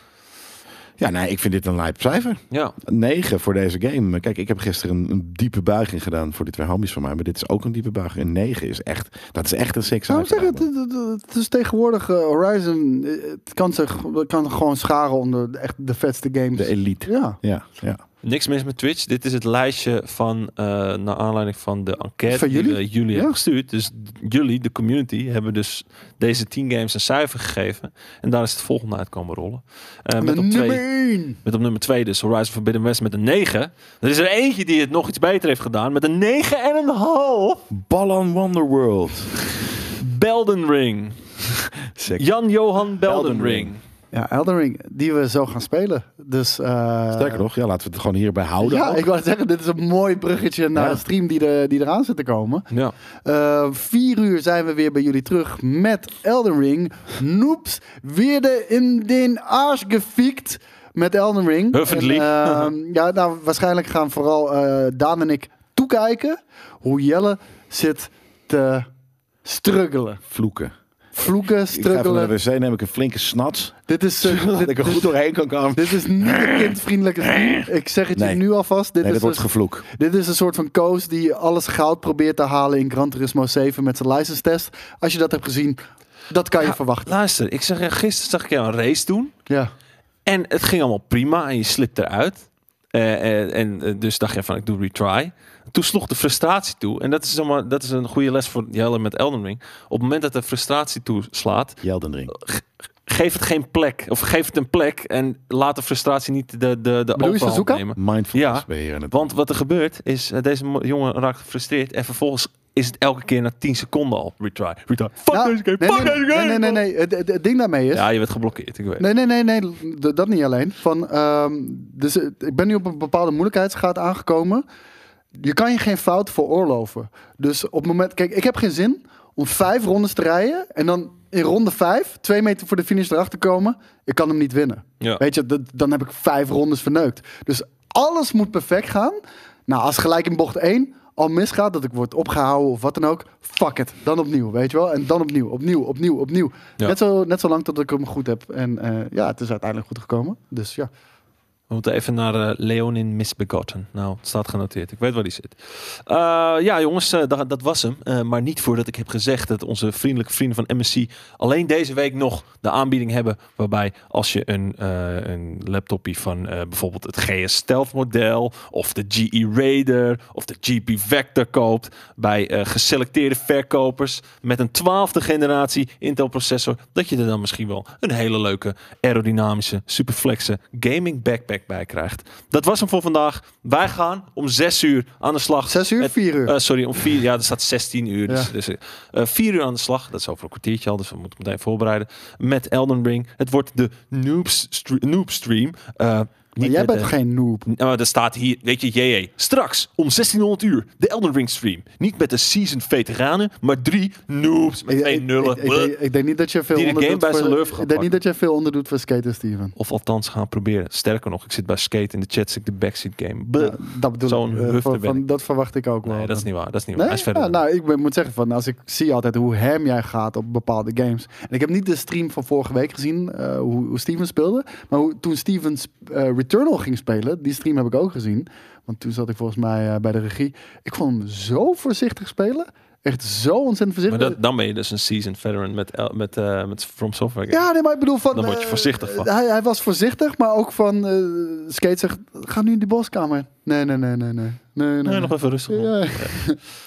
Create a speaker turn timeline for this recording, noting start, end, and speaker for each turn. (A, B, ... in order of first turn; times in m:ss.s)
0:01.0-0:10.7 A
0:02.5-0:02.8 B
0:10.1-0:17.4 C
0:16.6-0:18.0 A
0:18.2-0:30.9 B
0:22.3-0:23.4 C
0:30.2-0:31.4 C
0:31.4-0:37.6 B
0:37.7-0:39.3 A
0:40.0-0:41.4 B
0:41.9-0:42.3 A
0:42.2-0:43.8 B
0:43.0-0:43.8 A
0:44.1-0:47.4 C
0:47.1-0:49.1 A
0:48.6-0:52.7 C
0:50.7-0:51.0 A
0:53.2-1:08.9 C
1:01.7-1:02.7 B
1:09.4-1:10.2 C
1:10.3-1:10.7 A
1:11.2-1:12.3 C
1:11.2-1:18.4 A
1:13.9-1:15.2 C
1:15.7-1:27.1 C
1:19.0-1:19.9 A
1:26.6-1:29.4 B
1:29.5-1:29.7 C
1:30.3-1:56.8 B
1:41.8-1:42.3 A
1:47.2-1:47.8 C
1:48.0-1:49.3 A
1:55.3-1:58.1 C
1:57.9-1:59.1 B
1:59.0-2:04.6 C
2:05.4-2:30.9 C
2:31.7-3:17.1 B
3:05.7-3:06.6 C
3:16.6-3:17.7 C
3:17.7-3:26.0 B
3:24.9-3:29.7 C
3:26.7-3:28.1 B
3:29.8-3:35.2 B
3:33.6-3:54.4 C
3:36.0-3:37.6 B
3:54.1-3:57.7 B
3:57.5-4:06.6 C
3:58.3-3:59.3 B
4:05.0-4:06.4 B